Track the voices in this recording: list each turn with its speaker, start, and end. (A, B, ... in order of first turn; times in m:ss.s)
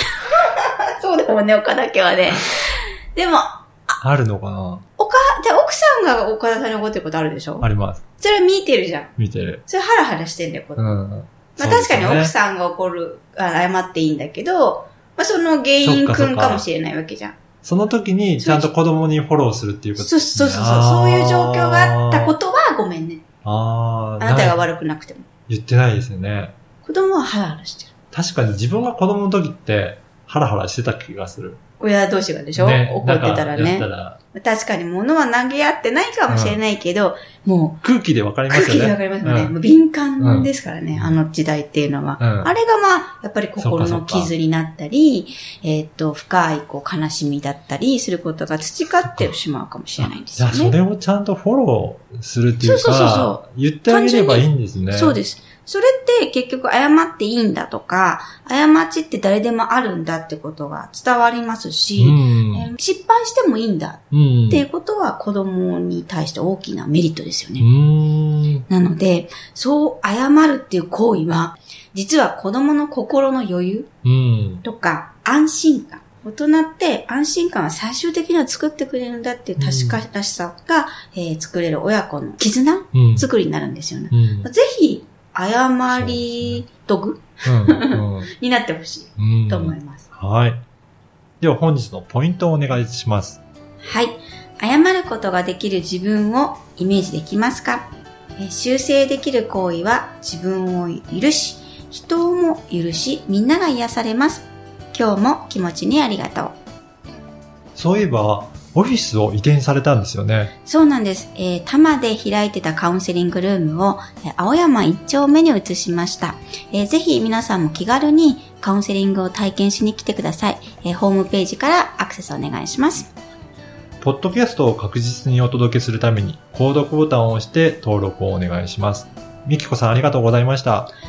0:00.2-0:03.6 A
0:04.0-0:04.8 B
0:05.0-0:07.6 A
0:07.6-0:08.0 B
0:08.2-0:09.1 A
0:09.2-0:09.6 B
0:09.6-0:11.0 A
0:10.8-0:12.3 B
0:11.6-0:17.4 A
0:15.8-0:16.6 B
0:17.6-0:22.3 B
0:18.4-0:18.7 A
0:20.0-0:23.2 A
0:23.4-0:24.6 B
0:24.2-0:25.2 A
0:25.5-0:26.5 B
0:26.8-0:27.9 A
0:28.1-0:31.6 B
0:31.8-0:37.8 A
0:32.6-0:34.2 B
0:36.3-0:36.6 B
0:37.8-0:39.5 B
0:38.5-0:50.7 A
0:40.2-0:41.2 B
0:42.2-0:42.5 B
0:43.6-0:44.3 B
0:50.0-0:55.2 B
0:52.6-1:07.6 A
1:02.0-1:02.7 B
1:04.1-1:04.6 B
1:07.6-1:08.6 B
1:08.7-1:13.9 A
1:14.0-1:14.6 B
1:14.6-1:30.1 A
1:19.6-1:20.0 B
1:22.9-1:23.3 B
1:24.1-1:24.5 B
1:25.9-1:26.6 B
1:27.4-1:28.3 B
1:29.2-1:30.6 B
1:31.4-1:33.4 B
1:33.8-1:46.5 A
1:47.8-1:50.5 B
1:50.6-2:03.1 A
2:04.0-2:10.9 B